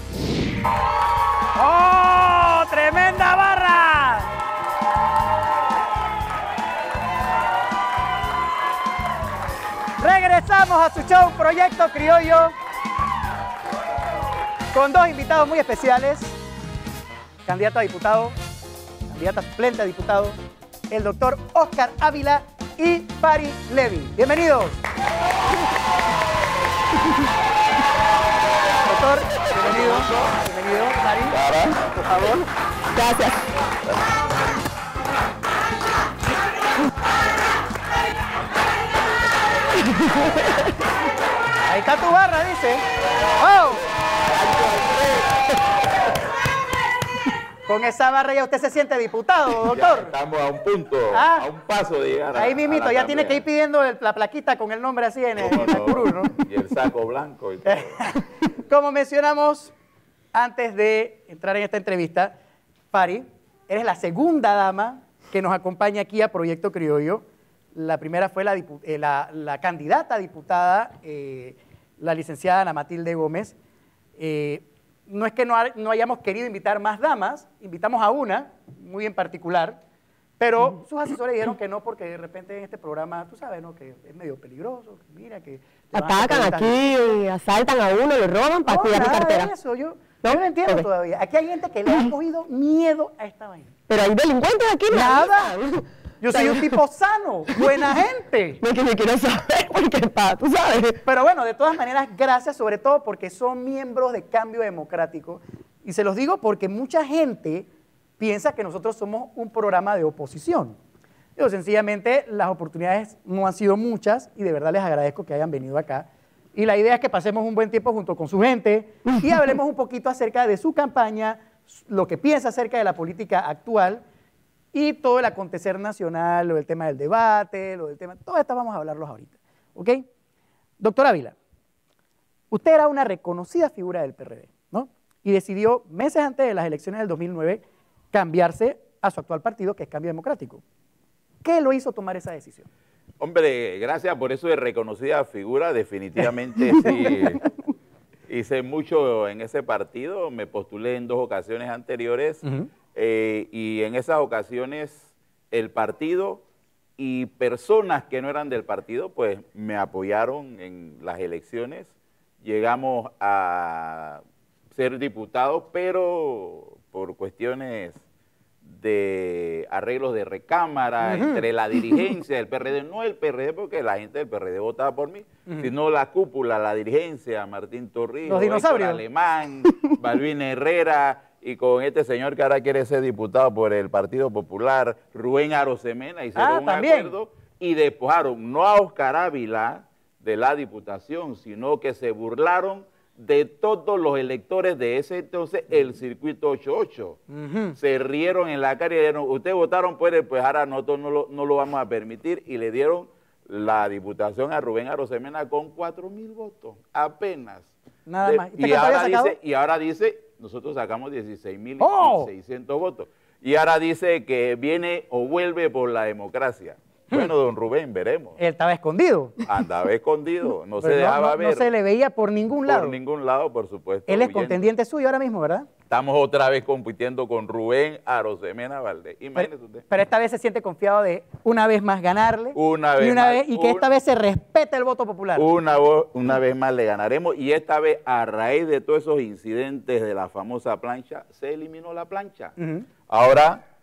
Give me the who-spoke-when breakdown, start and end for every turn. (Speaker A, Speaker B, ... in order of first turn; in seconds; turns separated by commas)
Speaker A: 1.6-4.3, Speaker A: 10.0-12.5, Speaker A: 14.7-16.4, Speaker A: 17.4-18.3, Speaker A: 19.1-20.4, Speaker A: 20.9-24.8, Speaker A: 28.9-31.4, Speaker B: 29.6-30.1, Speaker B: 31.3-31.9, Speaker A: 41.7-42.8, Speaker A: 43.4-43.8, Speaker B: 44.3-45.3, Speaker A: 47.7-50.1, Speaker B: 49.6-53.4, Speaker A: 51.1-51.5, Speaker A: 52.3-56.3, Speaker B: 55.4-58.0, Speaker A: 57.6-59.7, Speaker A: 60.3-62.3, Speaker A: 62.9-73.5, Speaker A: 74.2-79.8, Speaker A: 80.4-86.9, Speaker C: 85.9-89.5, Speaker A: 88.7-93.7, Speaker C: 90.2-90.9, Speaker C: 93.9-96.8, Speaker A: 94.9-95.6, Speaker A: 96.2-98.6, Speaker C: 98.6-101.0, Speaker A: 101.0-107.7, Speaker A: 108.2-110.8, Speaker A: 111.4-124.0, Speaker A: 124.7-130.0, Speaker A: 130.8-131.3, Speaker A: 132.5-140.6, Speaker A: 141.4-142.7, Speaker B: 143.2-147.4, Speaker B: 148.3-156.4, Speaker B: 157.0-164.2, Speaker B: 164.7-168.0, Speaker B: 168.6-197.2, Speaker A: 171.0-172.0, Speaker A: 178.2-179.0, Speaker A: 186.3-187.1, Speaker A: 197.3-197.8, Speaker B: 197.8-207.7, Speaker A: 208.1-209.3, Speaker B: 208.2-218.4, Speaker A: 211.8-212.3, Speaker A: 218.4-219.4, Speaker B: 219.4-221.7, Speaker A: 220.8-222.9, Speaker B: 222.6-224.7, Speaker A: 224.1-225.7, Speaker B: 225.9-229.8, Speaker A: 229.3-235.5, Speaker B: 232.5-233.9, Speaker B: 235.3-242.5, Speaker A: 242.6-242.8, Speaker B: 243.1-243.6